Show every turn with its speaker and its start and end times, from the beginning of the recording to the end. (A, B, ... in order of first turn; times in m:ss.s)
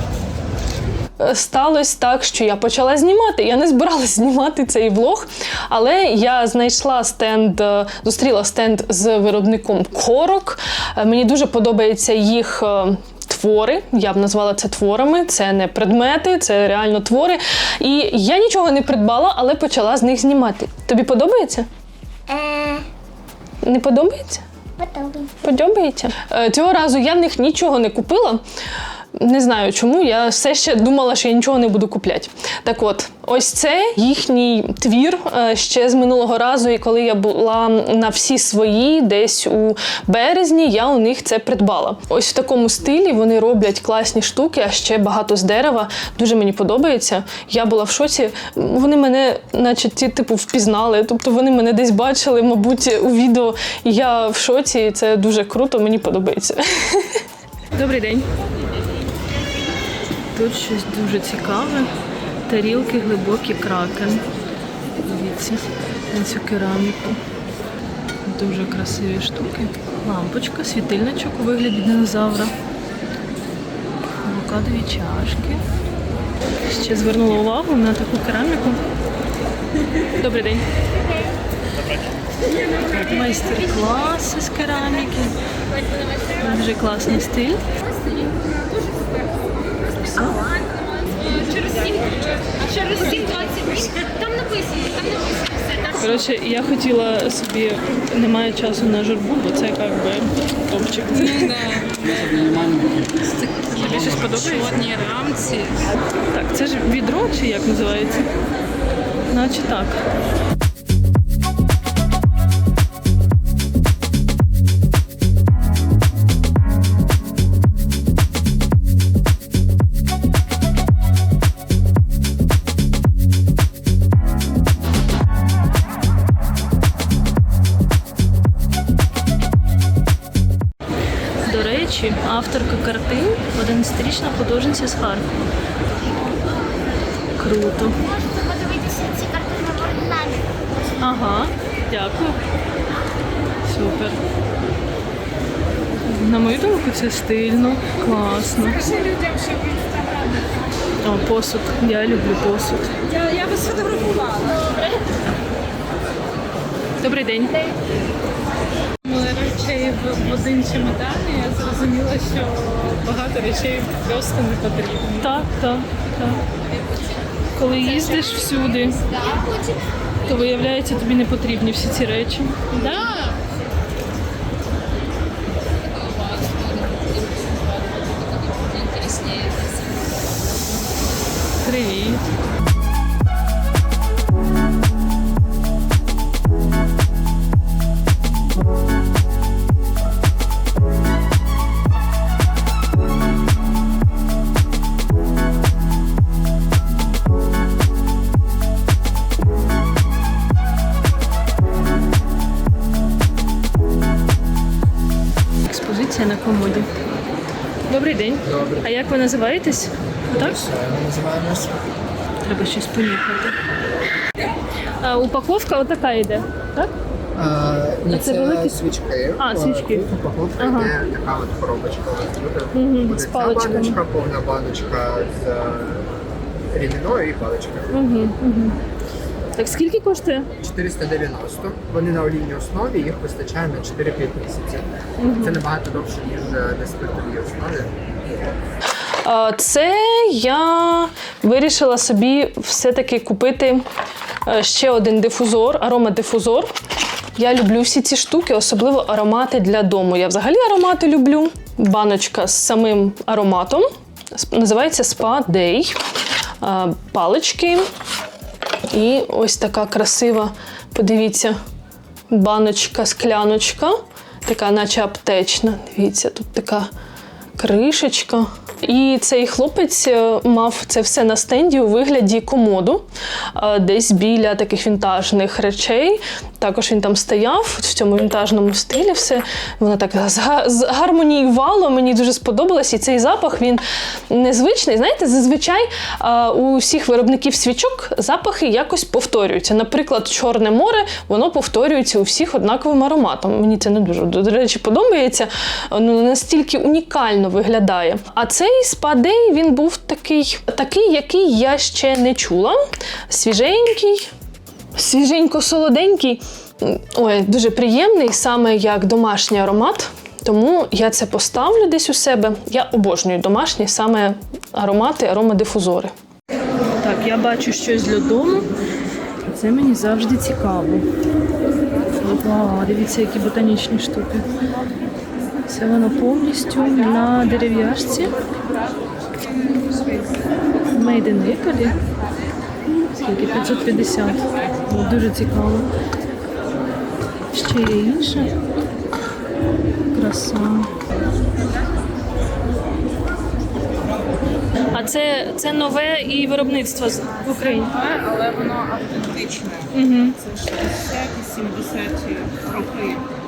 0:01.2-0:21.7 A
0:22.3-0:22.8 B
0:23.6-0:24.4 A
0:24.8-0:25.3 B
0:25.4-0:28.4 A
0:29.1-0:57.2 A
0:57.7-0:58.3 A
1:00.3-1:01.9 A
1:02.5-1:04.2 A
1:05.0-1:07.2 A
1:08.2-1:12.5 A
1:14.2-1:15.6 A
1:16.6-1:18.8 A
1:20.2-1:20.6 A
1:23.0-1:25.3 A
1:26.4-1:27.6 A
1:27.8-1:29.2 C
1:30.0-1:30.4 A
1:30.4-1:36.2 C
1:36.0-1:41.6 A
1:41.4-1:42.8 C
1:41.8-1:42.5 D
1:43.4-1:45.8 C
1:43.7-1:44.7 A
1:43.8-1:44.8 D
1:46.3-1:48.3 A
1:49.3-1:50.0 A
2:11.4-2:15.3 A
2:17.4-2:18.0 A
2:18.0-2:20.4 B
2:21.0-2:22.4 A
2:23.7-2:24.2 A
2:26.1-2:28.9 A
2:31.0-2:32.9 A
2:33.1-2:34.5 D
2:37.0-2:37.6 A
2:39.0-2:45.5 D
2:45.2-2:46.4 A
2:46.7-2:49.8 C
2:47.6-2:49.0 A
2:50.3-2:52.8 A
2:52.8-2:53.4 C
2:55.8-3:00.0 C
3:01.6-3:02.2 A
3:25.7-3:27.0 A
3:27.9-3:30.6 A
3:28.4-3:28.9 E
3:30.3-3:31.8 E
3:32.4-3:33.5 A
3:35.0-3:36.9 A
3:37.3-3:46.2 E
3:38.1-3:38.8 A
3:39.4-3:40.1 A
3:40.6-3:40.9 A
3:42.7-3:44.0 A
3:46.7-3:48.0 E
3:47.9-3:48.8 A
3:49.6-3:50.5 A
3:50.6-3:58.5 E
3:55.2-3:55.6 A
3:59.2-4:03.8 A
4:04.4-4:06.7 A
4:07.3-4:15.9 A
4:16.6-4:17.8 A
4:18.9-4:21.6 A
4:22.3-4:26.9 A
4:27.6-5:02.8 A
5:03.3-5:04.3 A
5:05.0-5:16.1 A
5:17.0-5:18.7 A
5:19.5-5:21.0 A
5:22.2-5:24.5 A
5:25.7-5:28.3 A
5:29.7-5:30.4 D
5:30.9-5:32.0 A
5:33.2-5:35.9 A
5:37.5-5:38.5 A
5:40.1-5:40.9 A
5:44.9-5:47.9 A
5:47.5-5:49.9 D
5:49.9-5:50.4 A
5:50.4-5:53.2 D